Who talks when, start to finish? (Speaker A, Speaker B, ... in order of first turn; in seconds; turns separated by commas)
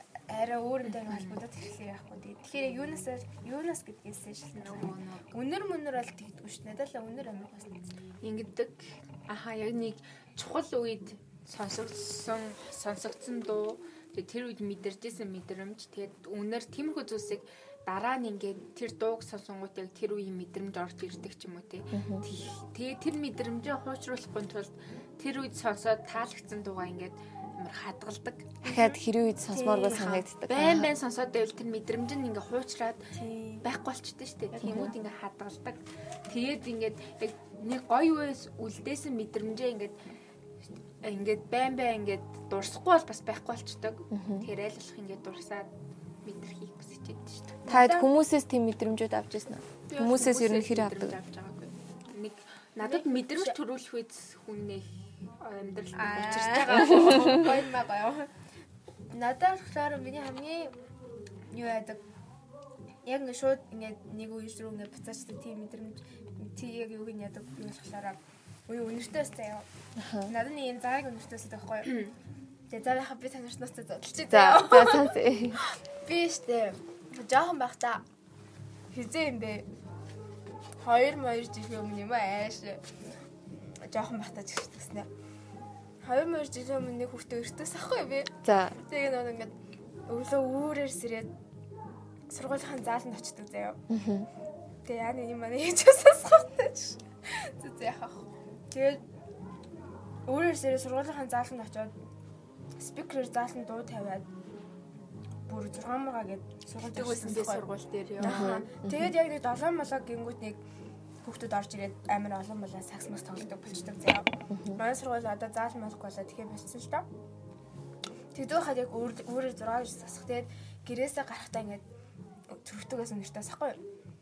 Speaker A: 0.3-7.9, Speaker B: 0.9-1.4, Speaker B: 4.5-5.3, Speaker B: 8.2-28.6, Speaker C: 21.9-22.3, Speaker C: 28.6-30.9, Speaker A: 28.6-30.1, Speaker B: 29.9-33.1, Speaker A: 33.1-33.6, Speaker B: 33.6-39.9, Speaker C: 34.6-34.9, Speaker B: 41.0-45.7, Speaker C: 44.1-44.5, Speaker B: 46.2-47.6, Speaker A: 47.7-48.1, Speaker C: 47.7-51.2, Speaker B: 49.9-57.5, Speaker A: 52.8-53.6, Speaker A: 56.0-58.3, Speaker A: 59.1-60.7, Speaker A: 61.5-62.0, Speaker A: 63.0-69.7, Speaker C: 70.0-70.3, Speaker A: 70.3-72.0, Speaker B: 71.9-72.1, Speaker A: 72.7-78.0, Speaker C: 74.3-75.6, Speaker A: 78.9-79.7, Speaker A: 80.8-82.8, Speaker A: 83.7-85.1, Speaker A: 86.0-89.5, Speaker C: 88.4-88.8, Speaker A: 90.1-91.3, Speaker A: 92.3-93.8, Speaker C: 93.9-94.3, Speaker A: 94.8-99.0, Speaker A: 100.2-101.9, Speaker A: 102.8-104.3, Speaker A: 105.5-107.7, Speaker B: 106.9-108.5, Speaker C: 108.2-109.1, Speaker A: 108.2-110.6, Speaker A: 111.2-117.1, Speaker C: 114.5-114.8, Speaker A: 118.3-121.8, Speaker A: 122.5-123.8